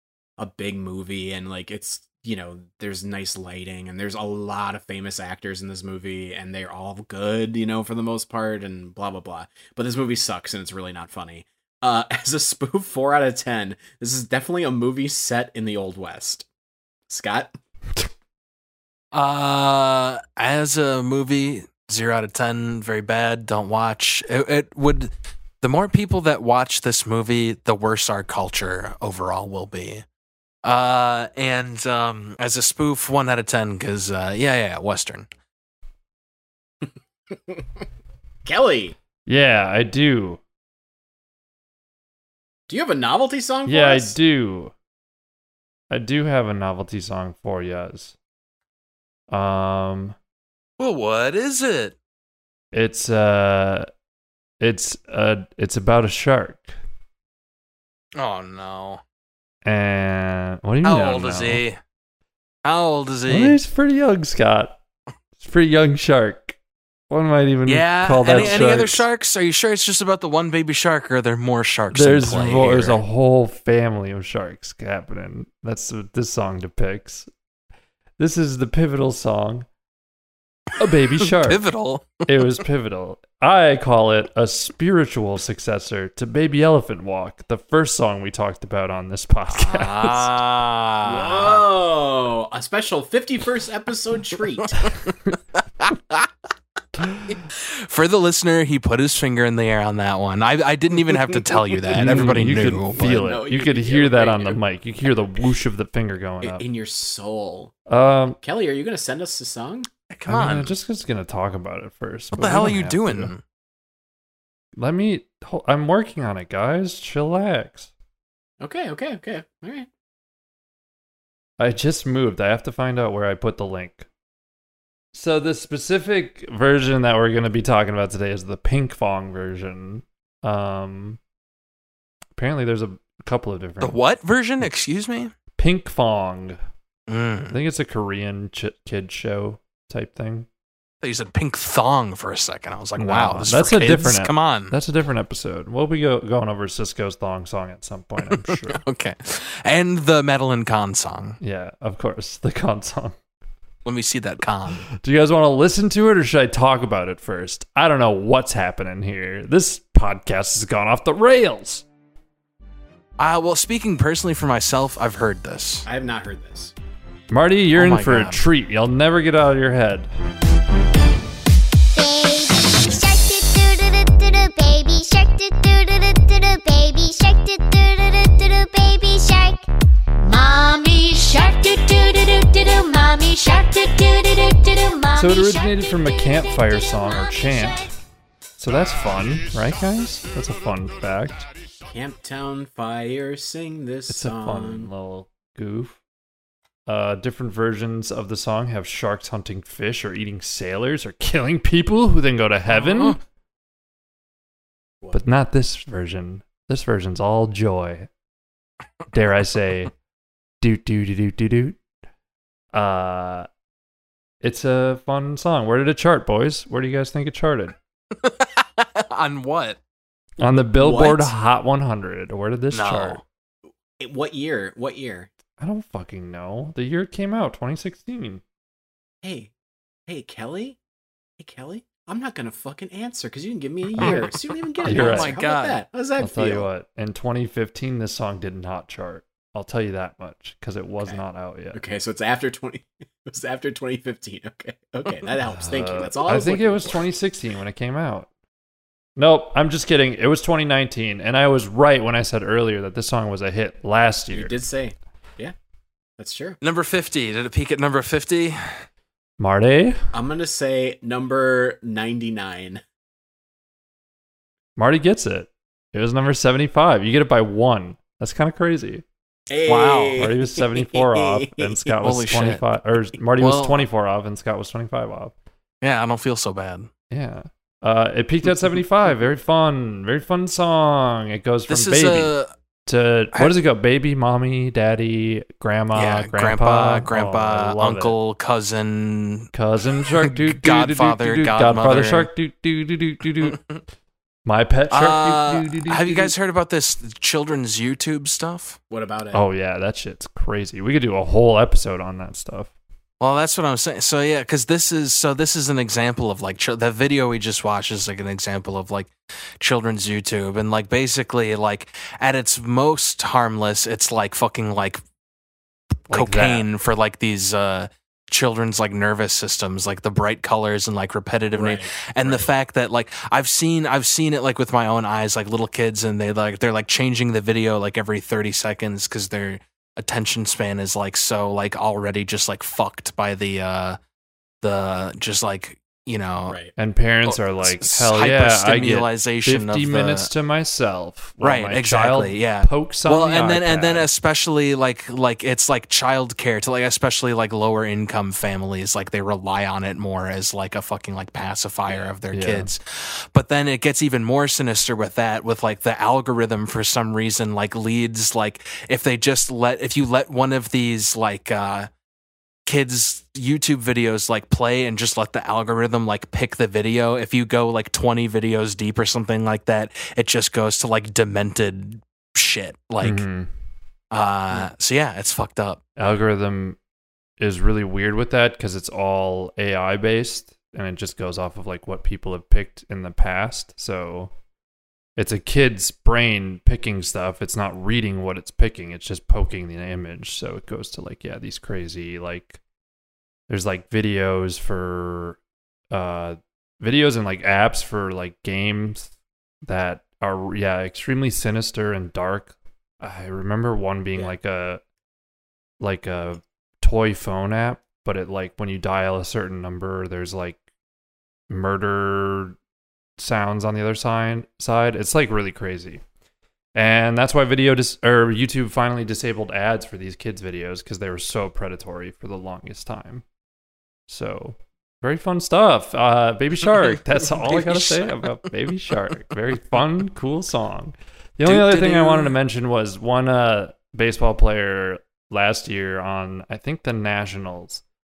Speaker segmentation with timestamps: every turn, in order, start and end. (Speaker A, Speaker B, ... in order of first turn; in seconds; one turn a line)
Speaker A: 0.4-16.5
Speaker A: 17.1-17.5
Speaker B: 19.1-30.1
Speaker B: 30.6-35.3
Speaker A: 37.3-37.6
Speaker A: 38.5-39.0
Speaker C: 39.3-40.4
Speaker A: 42.7-44.2
Speaker C: 43.7-44.7
Speaker C: 45.9-48.1
Speaker C: 49.3-50.2
Speaker B: 50.8-52.0
Speaker C: 52.7-53.9
Speaker C: 54.6-56.8
Speaker B: 58.2-59.0
Speaker C: 59.6-61.6
Speaker B: 60.8-61.8
Speaker B: 62.6-63.6
Speaker C: 63.3-64.8
Speaker C: 65.4-66.6
Speaker C: 67.1-69.1
Speaker B: 67.7-73.0
Speaker C: 71.9-77.3
Speaker C: 78.2-79.7
Speaker C: 80.8-81.7
Speaker B: 81.2-82.3
Speaker C: 82.3-90.3
Speaker B: 89.5-91.6
Speaker A: 91.0-94.9
Speaker B: 94.8-96.3
Speaker B: 97.3-103.2
Speaker C: 101.9-106.6
Speaker A: 103.0-104.6
Speaker A: 106.4-107.8
Speaker C: 107.9-108.4
Speaker A: 108.4-109.9
Speaker B: 110.1-110.7
Speaker C: 110.3-113.3
Speaker B: 112.3-113.4
Speaker C: 114.8-117.9
Speaker A: 118.6-119.9
Speaker C: 121.6-124.1
Speaker C: 125.1-131.2
Speaker C: 132.4-134.0
Speaker B: 133.8-135.3
Speaker C: 135.6-136.6
Speaker B: 137.1-137.6
Speaker C: 137.5-140.5
Speaker B: 141.0-144.8
Speaker C: 143.0-148.8
Speaker B: 148.5-151.4
Speaker C: 151.4-153.2
Speaker B: 153.8-154.8
Speaker C: 154.9-161.8
Speaker B: 163.2-165.9
Speaker A: 165.9-166.7
Speaker C: 167.3-170.1
Speaker B: 167.8-168.4
Speaker D: 171.9-179.7
Speaker D: 180.2-187.9
Speaker C: 185.1-187.9
Speaker C: 188.6-191.5
Speaker A: 191.9-194.9
Speaker C: 194.1-196.0
Speaker C: 196.9-203.2
Speaker B: 202.7-203.2
Speaker C: 205.1-208.1
Speaker C: 209.1-209.9
Speaker C: 210.6-211.8
Speaker C: 212.7-213.5
Speaker C: 214.4-217.8
Speaker B: 218.2-219.8
Speaker C: 220.4-223.2
Speaker A: 220.8-221.3
Speaker B: 222.7-223.2
Speaker A: 224.0-225.3
Speaker C: 225.6-228.4
Speaker A: 229.2-229.5
Speaker A: 230.1-230.8
Speaker A: 231.4-236.7
Speaker C: 234.0-234.3
Speaker B: 234.0-235.8
Speaker C: 234.8-235.3
Speaker C: 236.2-241.8
Speaker A: 241.7-247.1
Speaker C: 245.6-248.3
Speaker C: 249.2-254.6
Speaker A: 254.3-255.5
Speaker A: 256.2-256.6
Speaker B: 256.6-258.9
Speaker C: 259.4-260.0
Speaker A: 260.1-262.8
Speaker C: 264.8-269.0
Speaker A: 269.5-271.9
Speaker B: 269.7-270.3
Speaker C: 270.2-275.3
Speaker B: 272.0-272.6
Speaker B: 273.4-273.9
Speaker B: 275.8-276.9
Speaker C: 277.1-282.3
Speaker B: 281.7-282.5
Speaker C: 282.9-288.2
Speaker B: 285.9-289.5
Speaker C: 289.5-293.6
Speaker B: 290.3-292.3
Speaker B: 293.4-293.8
Speaker C: 294.5-296.3
Speaker B: 294.9-298.8
Speaker A: 298.9-299.4
Speaker C: 299.3-302.7
Speaker B: 303.2-315.0
Speaker C: 316.1-316.7
Speaker B: 316.1-334.0
Speaker A: 321.5-322.5
Speaker B: 334.6-336.6
Speaker A: 336.5-336.7
Speaker C: 336.8-344.1
Speaker B: 337.3-340.3
Speaker B: 341.4-361.9
Speaker C: 352.3-352.7
Speaker B: 362.7-373.2
Speaker C: 373.0-373.5
Speaker B: 374.1-375.8
Speaker C: 376.0-376.8
Speaker C: 377.4-384.3
Speaker C: 385.2-392.6
Speaker C: 393.5-395.4
Speaker C: 395.9-399.1
Speaker C: 399.7-404.8
Speaker C: 405.8-410.6
Speaker C: 411.5-412.6
Speaker C: 413.2-416.0
Speaker C: 416.8-423.2
Speaker C: 424.1-437.8
Speaker B: 427.2-428.1
Speaker B: 431.4-432.4